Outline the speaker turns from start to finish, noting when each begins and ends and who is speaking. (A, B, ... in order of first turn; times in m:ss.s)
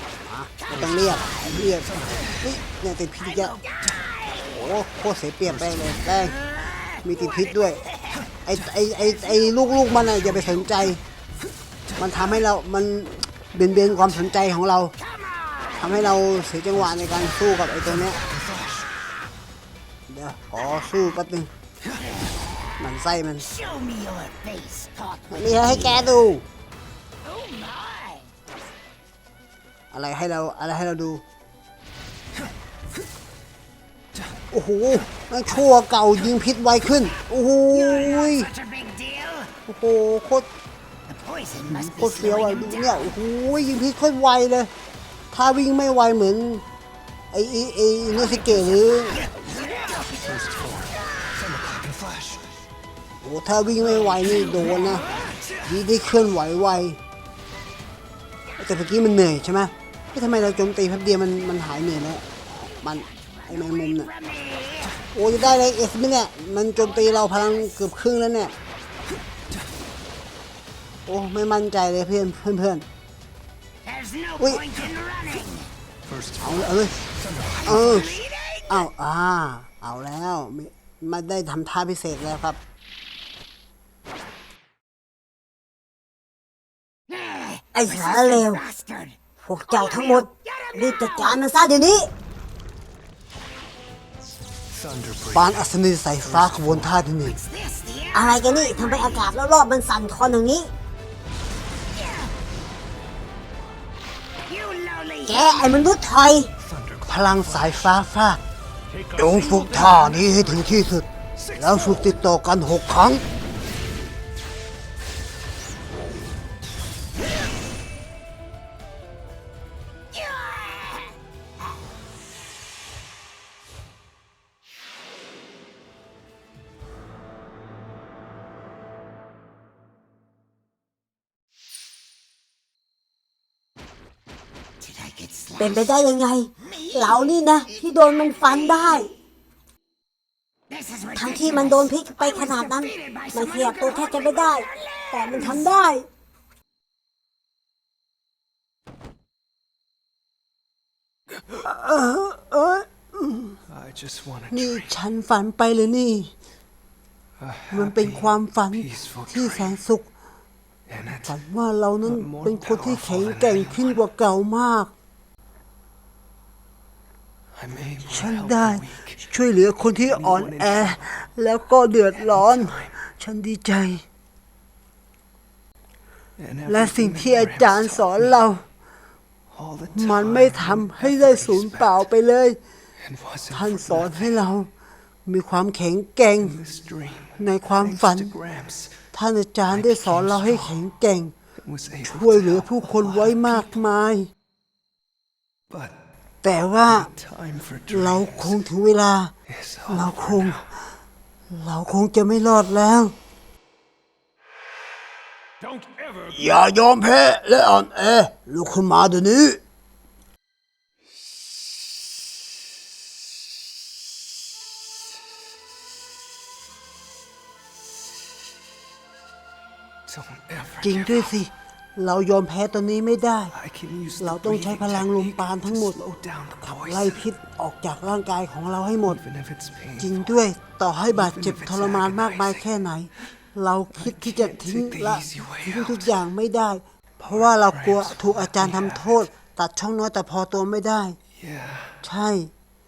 0:00.2-0:03.6 A
0:00.6-0:02.2 B
0:03.2-0:04.6 B
0:04.4-0:06.4 A
0:06.4-0:08.3 B
0:07.0-0:07.8 A
0:08.4-0:11.0 A
0:09.2-0:09.8 B
0:12.0-0:14.9 A
0:15.0-0:16.2 B
0:15.8-0:18.2 A
0:18.1-0:19.0 B
0:20.1-0:21.5 A
0:21.9-0:22.7 B
0:22.8-0:23.5 A
0:23.4-0:26.0 B
0:25.3-0:26.4 A
0:27.2-0:28.3 B
0:29.9-0:31.2 A
0:34.5-0:38.5 A
0:37.7-0:39.6 B
0:39.7-0:40.5 A
0:41.1-0:43.1 B
0:41.7-0:44.7 A
0:45.3-0:46.6 A
0:47.3-0:49.2 A
0:48.3-0:52.5 B
0:53.2-0:55.0 A
0:54.4-0:55.6 B
0:55.6-0:57.0 A
0:58.6-1:04.1 A
1:02.6-1:05.0 B
1:05.1-1:08.5 A
1:06.9-1:07.7 B
1:11.1-1:12.9 A
1:13.8-1:15.7 B
1:14.4-1:14.6 A
1:16.4-1:17.0 A
1:17.4-1:18.9 B
1:17.6-1:18.2 A
1:18.7-1:22.6 A
1:27.1-1:31.4 B
1:27.7-1:28.6 C
1:29.4-1:32.1 C
1:35.3-1:37.4 A
1:37.2-1:39.4 B
1:38.1-1:40.7 C
1:41.9-1:42.3 B
1:44.5-1:45.8 B
1:45.3-1:46.5 C
1:47.0-1:48.4 A
1:49.2-1:53.2 A
2:00.1-2:01.2 B
2:14.8-2:15.9 B
2:15.6-2:19.1 C
2:16.8-2:17.4 B
2:18.3-2:19.0 B
2:20.7-2:25.8 B
2:21.2-2:26.1 C
2:31.5-2:33.6 A
2:33.8-2:34.6 D
2:34.5-2:36.3 A
2:37.4-2:38.1 D
2:37.7-2:40.1 A
2:38.8-2:39.5 D
2:41.1-2:44.9 A
2:42.2-2:43.8 D
2:47.6-2:49.1 D
2:48.0-2:54.0 A
2:56.4-2:58.0 D
2:56.6-2:58.6 A
2:59.6-3:01.7 D
2:59.9-3:02.6 A
3:03.1-3:03.8 D
3:03.5-3:04.7 A
3:05.3-3:06.6 A
3:06.6-3:07.2 D
3:07.3-3:08.4 A
3:07.9-3:08.9 D
3:09.1-3:11.3 A
3:11.7-3:12.0 D
3:12.0-3:14.3 A
3:16.4-3:17.1 A
3:17.1-3:18.3 D
3:17.9-3:19.3 A
3:19.9-3:20.7 A
3:21.5-3:23.1 A
3:25.7-3:26.2 B
3:26.3-3:29.6 A
3:40.1-3:40.8 D
3:40.8-3:43.6 A
3:43.6-3:45.3 D
3:44.2-3:46.0 A
3:46.0-3:46.9 D
3:46.6-3:49.2 A
3:49.2-3:49.9 D
3:50.0-4:01.2 A
3:51.2-3:52.5 D
3:54.5-3:55.7 D
4:01.4-4:01.9 D
4:02.0-4:02.5 A